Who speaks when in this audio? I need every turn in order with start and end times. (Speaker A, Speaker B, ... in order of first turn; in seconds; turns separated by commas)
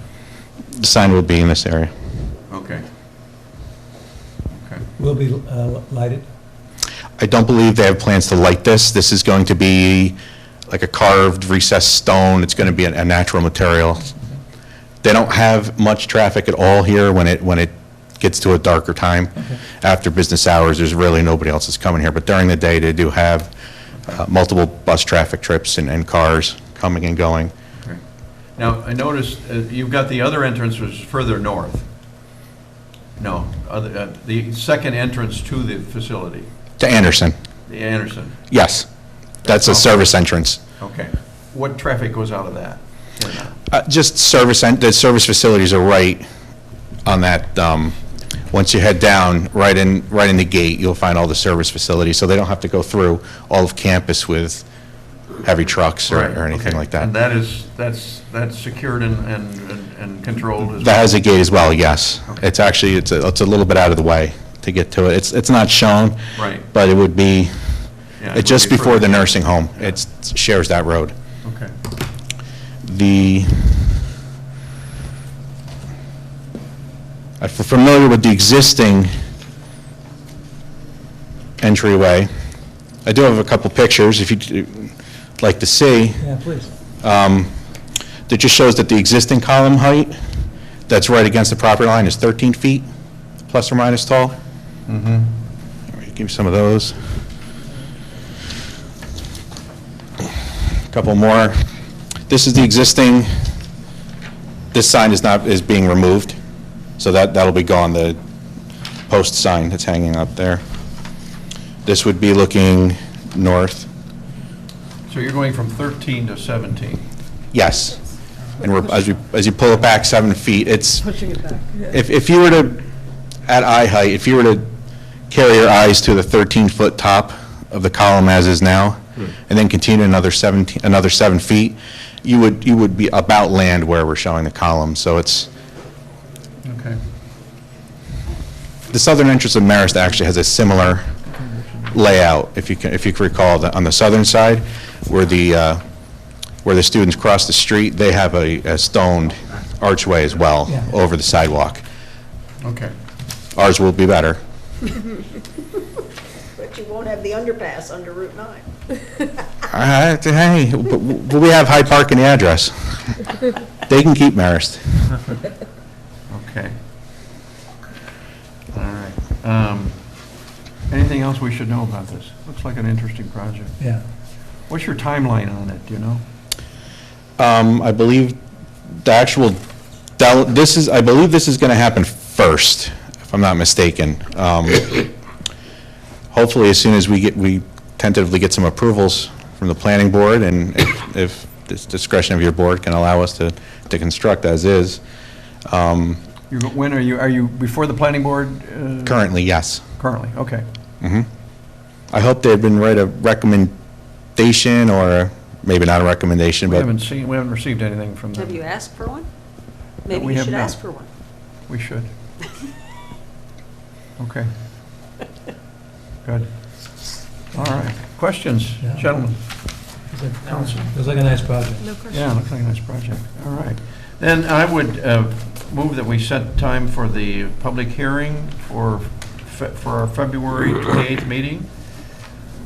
Speaker A: 0.8-1.9, Speaker B: 2.5-2.9, Speaker B: 4.5-4.8, Speaker C: 5.0-6.2, Speaker A: 7.2-10.2, Speaker A: 10.7-14.1, Speaker A: 15.0-23.5, Speaker A: 24.1-27.5, Speaker B: 27.7-28.0, Speaker B: 28.6-31.9, Speaker B: 33.2-36.5, Speaker A: 36.8-37.3, Speaker B: 37.7-38.4, Speaker A: 38.5-38.9, Speaker B: 39.4-40.0, Speaker A: 39.4-40.6, Speaker B: 40.8-43.6, Speaker A: 43.7-46.2, Speaker A: 47.0-47.9, Speaker A: 48.5-54.6, Speaker A: 55.4-57.1, Speaker B: 56.1-61.1, Speaker A: 60.8-67.5, Speaker B: 66.3-66.7, Speaker B: 68.2-69.3, Speaker A: 68.3-71.1, Speaker B: 71.4-71.7, Speaker A: 72.8-73.9, Speaker A: 77.4-79.1, Speaker A: 81.6-82.3, Speaker A: 83.0-86.3, Speaker C: 86.2-86.7, Speaker A: 87.0-87.5, Speaker A: 88.3-90.2, Speaker A: 90.9-92.8, Speaker A: 93.5-94.3, Speaker B: 94.9-95.3, Speaker A: 95.9-97.0, Speaker A: 100.9-101.6, Speaker A: 102.3-103.3, Speaker A: 104.7-106.4, Speaker A: 107.0-108.2, Speaker A: 109.1-110.6, Speaker A: 111.8-113.9, Speaker B: 115.1-117.0, Speaker A: 117.5-118.0, Speaker A: 118.6-121.1, Speaker A: 121.9-122.8, Speaker A: 123.5-124.7, Speaker A: 125.3-135.5, Speaker B: 136.6-137.0, Speaker A: 138.9-141.1, Speaker A: 141.9-145.8, Speaker A: 146.6-151.8, Speaker B: 152.6-152.9, Speaker A: 153.5-154.4, Speaker D: 156.6-158.6, Speaker A: 159.7-163.2, Speaker A: 163.8-164.8, Speaker B: 166.3-166.8, Speaker B: 168.7-170.1, Speaker B: 170.9-173.8, Speaker B: 174.7-176.2, Speaker A: 177.4-178.4, Speaker A: 179.0-179.6, Speaker A: 180.2-185.0, Speaker A: 186.3-195.0, Speaker A: 195.7-196.2, Speaker B: 196.5-199.2, Speaker A: 199.1-199.8, Speaker B: 200.0-200.7, Speaker A: 201.0-201.3, Speaker A: 202.1-203.7, Speaker A: 204.3-206.9, Speaker B: 206.7-208.6, Speaker D: 208.3-209.3, Speaker D: 210.0-211.1, Speaker B: 210.1-210.8, Speaker B: 211.7-212.1, Speaker B: 214.2-214.5, Speaker B: 216.2-216.5, Speaker B: 217.5-219.4, Speaker C: 218.8-219.2, Speaker C: 219.9-221.8, Speaker D: 221.8-222.3, Speaker B: 222.1-232.1